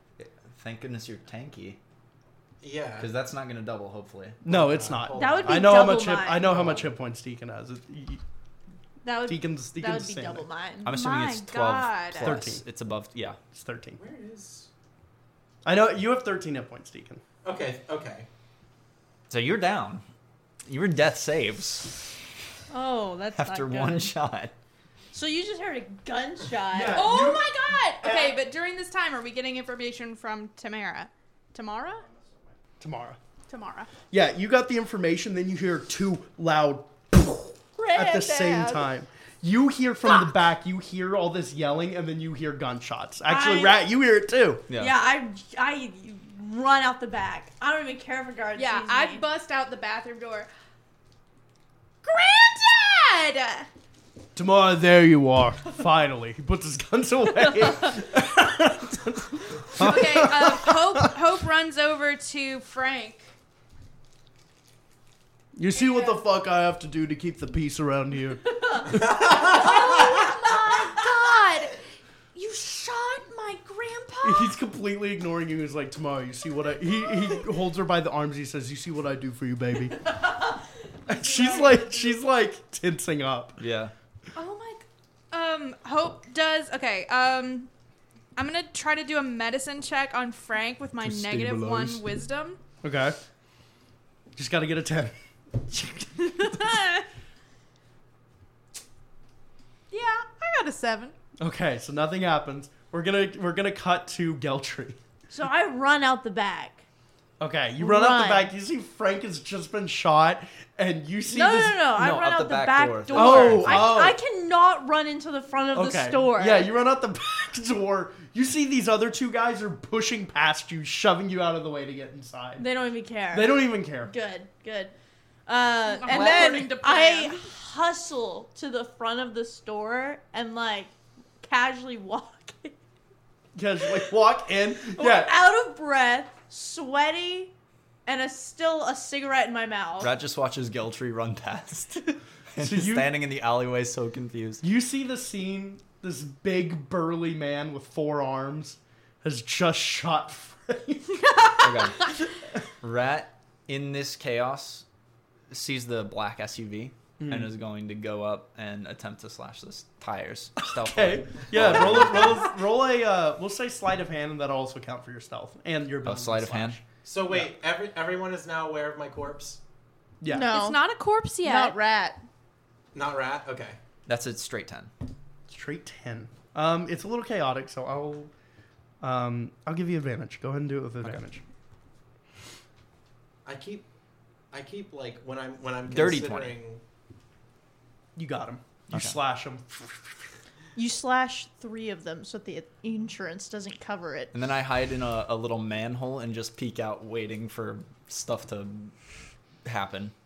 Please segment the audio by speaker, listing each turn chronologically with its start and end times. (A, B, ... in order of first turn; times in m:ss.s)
0:00.2-0:01.8 A
0:02.6-0:03.1 B
0:03.0-0:04.4 A
0:04.4-0:08.2 C
0:04.5-0:05.8 B
0:05.1-0:06.5 D
0:06.5-0:06.8 A
0:09.0-0:11.0 D
0:09.2-0:10.5 C
0:10.8-0:13.4 A
0:10.9-0:12.4 E
0:12.2-0:12.6 C
0:13.5-0:14.0 C
0:14.0-0:14.7 B
0:15.6-0:17.2 C
0:17.4-0:18.3 B
0:19.3-0:20.0 A
0:20.6-0:22.1 A
0:22.7-0:24.1 D
0:23.3-0:24.5 A
0:25.1-0:27.1 D
0:26.7-0:28.2 C
0:26.9-0:32.1 E
0:32.8-0:33.2 C
0:33.5-0:33.9 E
0:34.1-0:44.6 C
0:37.8-0:38.9 D
0:43.3-0:43.8 D
0:44.7-0:45.0 A
0:44.8-0:49.2 D
0:48.6-0:50.5 E
0:52.0-0:53.7 E
0:54.3-1:01.2 C
0:59.7-1:03.3 E
1:05.5-1:10.3 C
1:05.7-1:06.2 E
1:09.1-1:11.8 E
1:12.3-1:14.5 E
1:14.2-1:20.0 C
1:21.1-1:23.6 C
1:21.4-1:21.8 E
1:23.6-1:23.9 A
1:24.3-1:27.7 E
1:28.4-1:32.6 E
1:31.0-1:32.0 C
1:31.0-1:31.9 A
1:32.8-1:33.2 C
1:34.3-1:35.1 C
1:36.2-1:37.0 E
1:39.9-1:41.1 E
1:41.4-1:45.0 C
1:45.3-1:46.8 D
1:47.4-1:51.8 C
1:47.8-1:48.5 D
1:51.3-1:56.7 D
1:51.9-1:54.0 A
1:53.1-1:54.2 C
1:55.7-2:02.6 C
2:02.6-2:04.9 D
2:03.3-2:04.1 C
2:05.4-2:12.8 D
2:05.8-2:07.4 E
2:06.1-2:06.7 A
2:13.5-2:15.3 C
2:14.8-2:17.5 D
2:18.0-2:20.1 D
2:20.0-2:24.6 A
2:22.6-2:23.1 C
2:24.6-2:31.4 C
2:31.6-2:32.1 A
2:32.8-2:34.8 A
2:35.5-2:42.4 A
2:37.2-2:37.5 C
2:40.8-2:46.8 C
2:46.0-2:46.8 A
2:47.0-2:49.6 B
2:50.2-2:50.5 C
2:50.3-2:50.8 D
2:50.5-2:51.8 E
2:51.4-2:52.2 D
2:52.9-2:53.8 B
2:54.0-2:54.9 A
2:55.5-2:58.3 C
2:59.0-3:01.4 C
3:03.4-3:03.8 B
3:04.5-3:06.8 B
3:05.9-3:06.6 A
3:08.2-3:10.2 C
3:08.9-3:09.2 A
3:10.7-3:14.3 D
3:14.3-3:18.9 A
3:19.6-3:20.1 A